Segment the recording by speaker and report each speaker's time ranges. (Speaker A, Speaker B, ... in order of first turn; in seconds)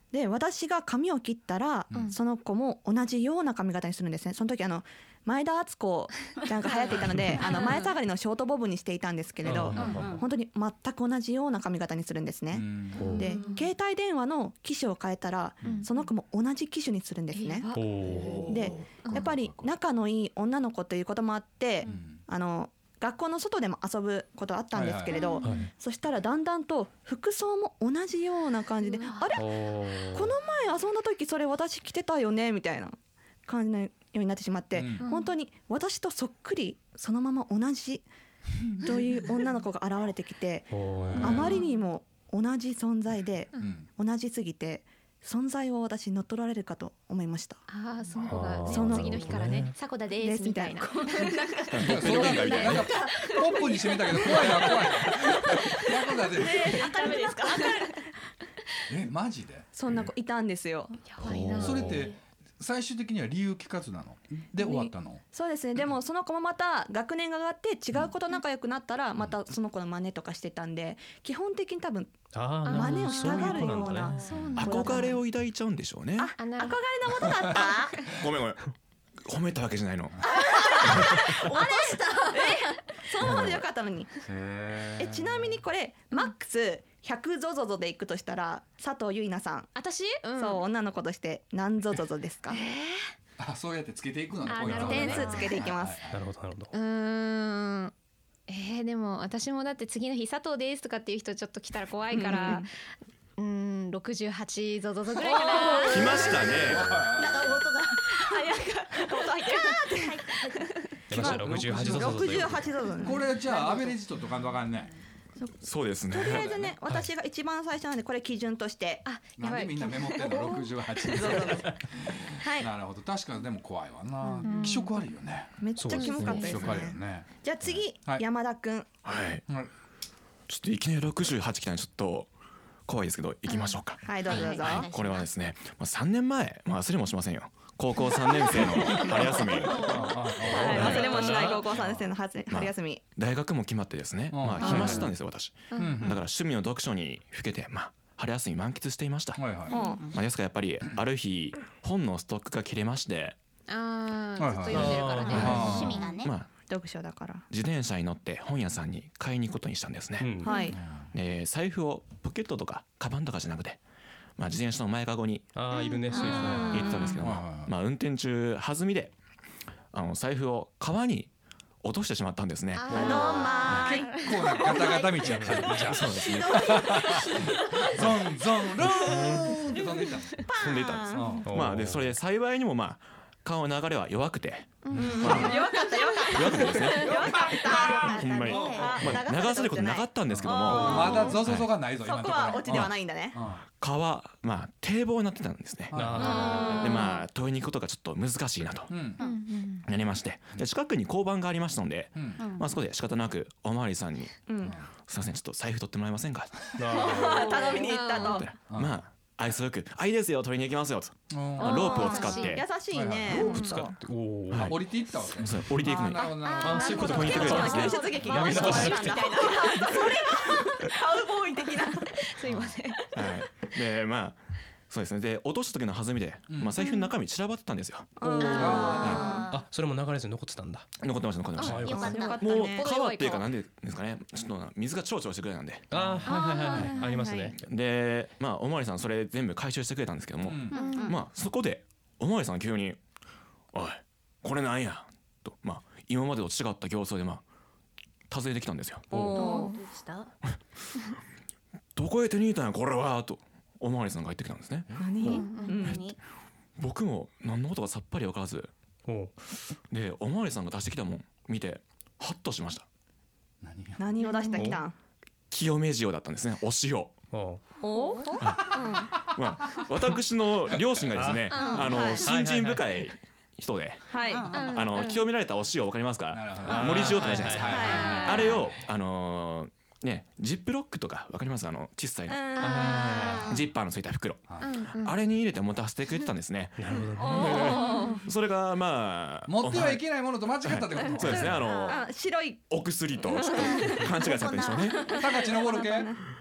Speaker A: 0.1-17.7, 18.5-29.4, 30.1-38.0, 38.8-47.6, 48.7-49.5, 50.2-51.4, 52.9-53.3, 54.2-54.9, 56.4-58.0, 59.7-61.1, 64.5-72.1, 72.7-75.2, 76.2-78.0, 80.2-84.1, 85.0-89.7, 90.3-92.6, 94.8-96.0, 102.1-102.7, 105.2-106.8, 111.1-113.3, 116.1-119.0, 121.1-121.7, 122.4-122.7, 125.6-128.9, 134.0-134.9, 140.4-143.0, 149.7-150.0, 156.7-157.4, 160.4-160.8, 166.6-167.2, 172.9-175.0, 180.5-181.3, 184.9-191.4, 192.0-193.4, 196.2-197.1, 204.5-204.8, 206.9-208.5, 211.6-214.0, 216.5-222.2, 228.2-229.5, 231.9-232.9, 236.3-237.6, 249.1-249.7, 255.0-256.0, 264.0-264.9, 267.8-269.0, 271.7-272.2, 274.1-274.5, 277.6-278.6, 282.3-283.4, 287.1-288.2, 291.3-292.7, 293.3-294.1, 295.4-296.1
Speaker B: 6.7-7.9, 9.8-10.1, 13.2-13.7, 15.6-16.1, 17.3-18.0, 19.0-19.3, 25.2-25.7, 28.8-29.4, 35.0-35.3, 41.3-41.7, 47.7-58.0, 61.1-62.1, 72.6-75.2, 76.4-76.8, 77.5-78.2, 80.7-82.8, 89.7-90.6, 92.5-93.1, 94.4-95.7, 96.7-97.9, 98.5-102.7, 103.4-106.6, 108.1-111.0, 119.0-121.4, 124.4-124.9, 125.9-126.7, 133.5-133.8, 144.6-145.0, 145.7-146.1, 153.7-156.1, 160.5-160.7, 165.8-166.5, 172.7-175.0, 176.3-177.9, 179.8-180.1, 184.9-187.1, 190.7-191.4, 196.2-197.2, 199.2-199.8, 207.0-208.5, 211.6-212.6, 213.4-213.8, 216.5-220.5, 221.8-223.4, 226.8-227.1, 228.4-229.0, 231.6-233.5, 236.2-237.2, 240.7-241.2, 249.3-249.8, 255.3-256.0, 264.2-264.8, 268.1-269.1, 271.5-272.2, 274.5-275.3, 277.7-278.5, 282.6-283.4, 284.6-285.2, 287.4-288.2
Speaker C: 9.4-10.2, 13.0-13.3, 17.7-18.6, 25.4-25.7, 29.4-30.3, 40.7-41.5, 48.2-49.7, 61.2-62.1, 72.3-74.1, 94.7-95.0, 96.1-96.7, 111.1-112.6, 125.8-126.8, 140.6-141.6, 154.7-156.0, 160.2-160.5, 165.5-166.8, 175.3-175.6, 179.0-179.4, 181.4-182.2, 195.9-196.6, 206.8-207.6, 213.3-214.8, 216.6-219.3, 229.5-230.9, 231.6-232.0, 235.9-237.6, 259.1-259.3, 267.3-267.6, 271.1-271.5, 272.1-272.8, 276.6-278.0, 282.6-283.5, 286.8-287.7
Speaker D: 9.5-9.9, 12.5-13.1, 18.0-19.7, 21.8-22.2, 24.7-25.2, 34.7-35.1, 41.1-41.5, 43.6-43.9, 51.8-56.8, 58.9-59.7, 61.6-65.2, 84.3-85.6, 93.4-96.2, 106.4-107.6, 111.1-114.9, 116.2-116.8, 119.4-125.6, 126.2-127.3, 138.5-142.1, 144.3-145.1, 145.8-146.2, 149.3-149.8, 154.4-155.9, 160.7-161.1, 166.2-167.7, 173.7-177.3, 177.9-180.4, 181.1-181.5, 184.9-185.5, 187.1-187.9, 188.4-189.0, 190.3-193.6, 195.9-196.6, 198.9-199.2, 202.1-202.4, 208.7-209.0, 211.3-211.9, 212.9-213.5, 214.6-217.6, 226.5-226.8, 228.5-229.3, 235.9-236.2, 240.4-240.8, 254.9-255.3, 263.6-264.0, 276.3-278.6, 284.5-284.8, 289.5-291.6, 295.1-296.1
Speaker E: 9.8-10.2, 107.0-108.5, 109.8-110.6, 124.2-124.8, 134.2-135.3, 139.6-140.1, 149.7-150.1, 155.0-156.3, 166.1-166.9, 187.7-189.1, 202.4-202.7, 228.9-229.5, 231.8-232.4, 240.7-241.2, 249.1-250.3, 255.2-256.2, 267.9-268.4, 271.5-271.9, 274.2-274.8, 283.2-283.6, 291.5-292.0, 293.6-295.3
Speaker F: 51.7-52.9, 74.5-76.3, 77.5-78.7, 79.2-80.2, 83.2-83.6, 105.8-106.9, 115.6-116.5, 129.0-129.4, 130.5-132.3, 132.9-141.4, 142.5-149.5, 150.1-153.4, 155.3-156.5, 157.5-160.3, 161.1-163.8, 164.4-165.5, 166.7-169.1, 169.9-171.3, 171.8-173.8, 175.3-176.8, 180.6-185.6, 186.3-187.1, 188.0-191.7, 192.7-192.9, 193.8-198.9, 199.8-204.4, 205.1-206.6, 208.1-212.7, 214.5-214.8, 215.4-218.9, 223.1-224.4, 224.9-229.3, 231.0-235.8, 237.6-243.0, 243.7-247.4, 248.3-249.4, 251.9-254.9, 256.8-258.7, 259.9-262.9, 265.5-267.1, 268.4-282.4, 283.4-290.1, 290.6-292.1, 292.7-295.2